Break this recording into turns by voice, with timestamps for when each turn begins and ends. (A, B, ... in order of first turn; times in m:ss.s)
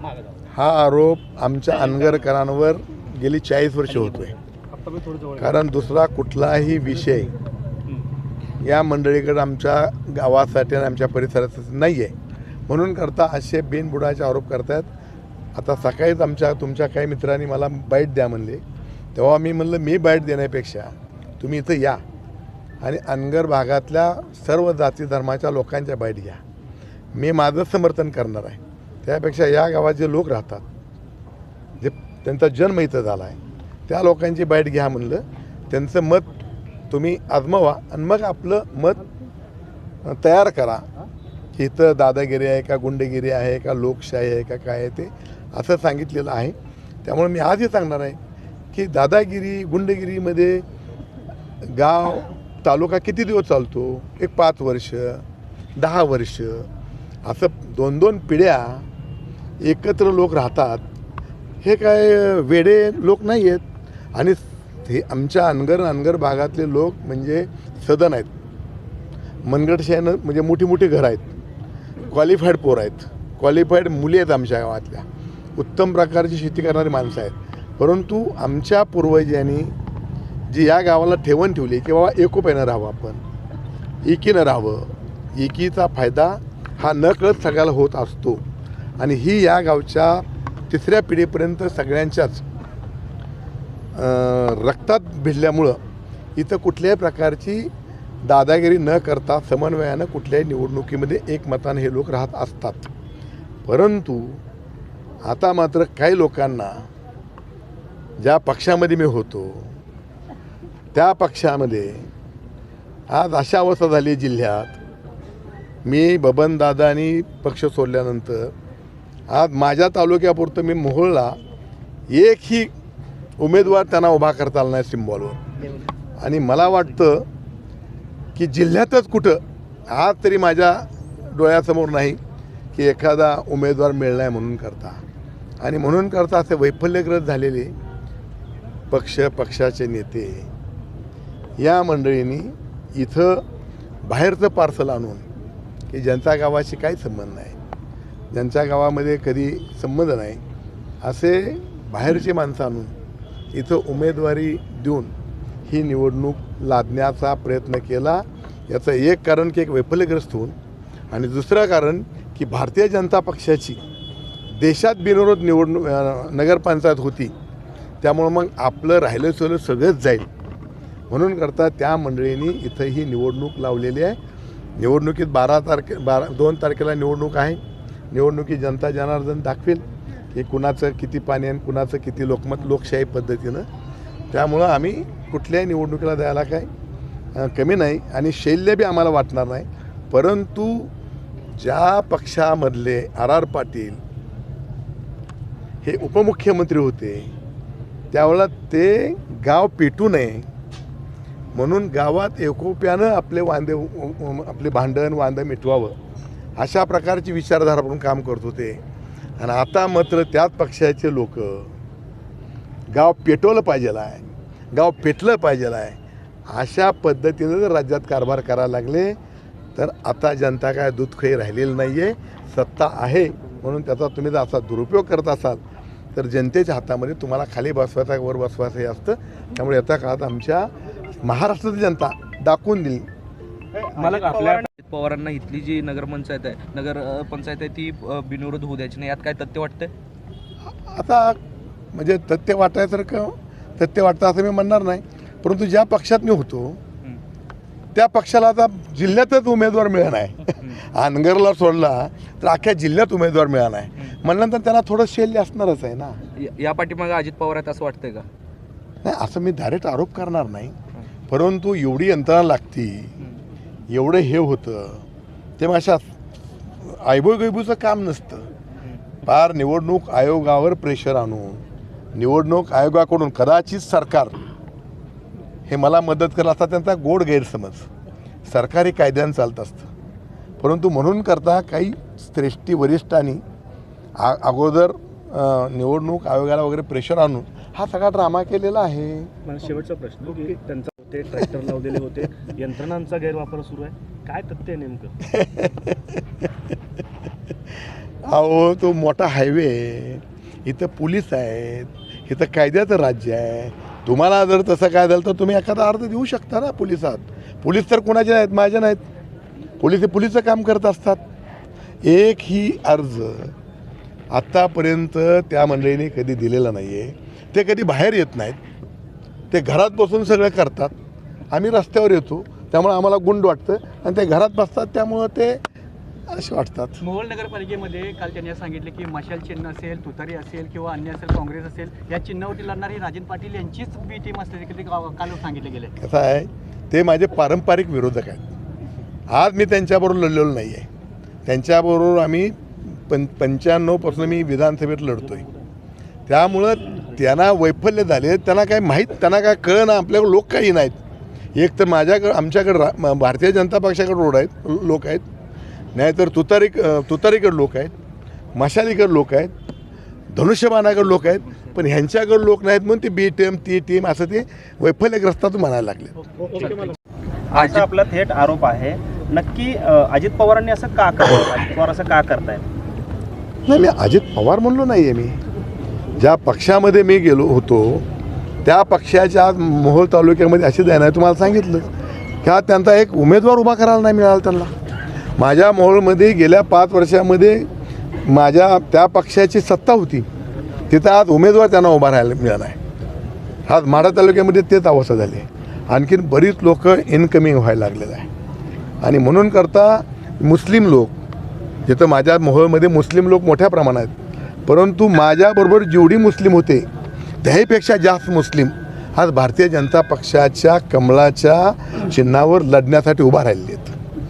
0:00.5-0:04.3 A
0:01.7-0:02.2 B
0:03.9-0:04.4 B
0:04.9-0:05.3 C
0:05.4-0:07.3 A
0:08.6-0:12.1 A
0:12.7-0:14.9 A
0:15.5-0:18.6 A
0:19.1-0:22.0 A
0:22.8-0:26.4 A
0:27.1-0:30.6 A
0:31.8-0:33.4 A
0:33.9-0:39.0 A
0:40.0-0:40.9 A
0:41.6-0:48.2 A
0:48.7-0:50.6 A
0:51.6-0:55.2 A
0:55.8-0:56.7 A
0:57.2-0:58.8 A
0:59.6-1:00.8 A
1:01.6-1:08.3 A
1:09.4-1:11.4 A
1:12.1-1:19.7 A
1:20.5-1:23.2 A
1:24.0-1:28.4 A
1:29.0-1:32.4 A
1:33.9-1:35.8 A
1:36.4-1:37.7 A
1:38.2-1:42.9 A
1:43.6-1:44.4 A
1:45.2-1:46.8 A
1:48.2-1:49.7 A
1:50.9-1:52.1 A
1:53.1-1:54.8 A
1:55.8-1:58.5 A
1:59.3-2:01.4 A
2:02.1-2:02.7 A
2:03.4-2:05.4 A
2:06.2-2:07.2 A
2:08.4-2:12.2 A
2:12.7-2:15.0 A
2:15.6-2:17.7 A
2:18.9-2:20.5 A
2:21.6-2:23.4 A
2:24.0-2:25.2 A
2:25.9-2:27.6 A
2:28.3-2:30.4 A
2:31.0-2:32.9 A
2:33.5-2:35.1 A
2:35.7-2:40.6 A
2:41.1-2:43.8 A
2:44.6-2:47.3 A
2:48.0-2:50.3 A
2:51.1-2:54.2 A
2:54.8-2:57.6 A
2:58.1-3:03.7 A
3:04.3-3:06.7 A
3:07.3-3:10.9 A
3:11.6-3:14.0 A
3:15.8-3:17.3 A
3:18.1-3:20.5 A
3:21.5-3:26.0 A
3:26.6-3:28.8 A
3:29.4-3:31.7 A
3:32.9-3:39.2 A
3:39.8-3:45.6 A
3:46.1-3:50.7 A
3:51.2-3:53.1 A
3:53.7-3:54.7 B
3:54.0-3:59.9 D
4:00.8-4:01.4 A
4:01.9-4:06.8 A
4:07.9-4:16.2 A
4:10.5-4:10.8 D
4:16.4-4:18.2 D
4:19.0-4:20.8 A
4:21.3-4:23.1 A
4:23.9-4:25.0 A
4:25.6-4:26.1 A
4:26.8-4:28.5 A
4:29.2-4:31.6 A
4:32.1-4:34.4 A
4:35.7-4:37.9 A
4:38.5-4:39.9 A
4:40.6-4:43.4 A
4:44.2-4:49.3 A
4:49.4-4:55.1 E
4:55.3-4:56.5 A
4:58.3-5:09.0 A
5:09.8-5:11.2 A
5:12.0-5:13.5 A
5:14.3-5:18.6 A
5:19.5-5:20.9 A
5:21.5-5:25.6 A
5:26.3-5:27.0 A
5:27.0-5:35.9 C
5:36.0-5:38.4 A
5:39.3-5:40.9 A
5:41.4-5:45.4 A
5:46.3-5:51.0 A
5:51.6-5:55.2 A
5:55.9-5:57.9 A
5:58.6-5:59.5 A
6:00.3-6:06.2 A
6:06.5-6:07.0 D
6:07.5-6:12.6 B
6:07.5-6:07.8 D
6:13.7-6:15.4 A
6:16.2-6:18.1 A
6:18.6-6:21.9 A
6:22.4-6:24.7 A
6:25.4-6:27.7 A
6:28.2-6:30.2 A
6:30.9-6:32.8 A
6:33.7-6:38.3 A
6:39.0-6:41.1 A
6:41.8-6:46.9 A
6:47.4-6:54.0 A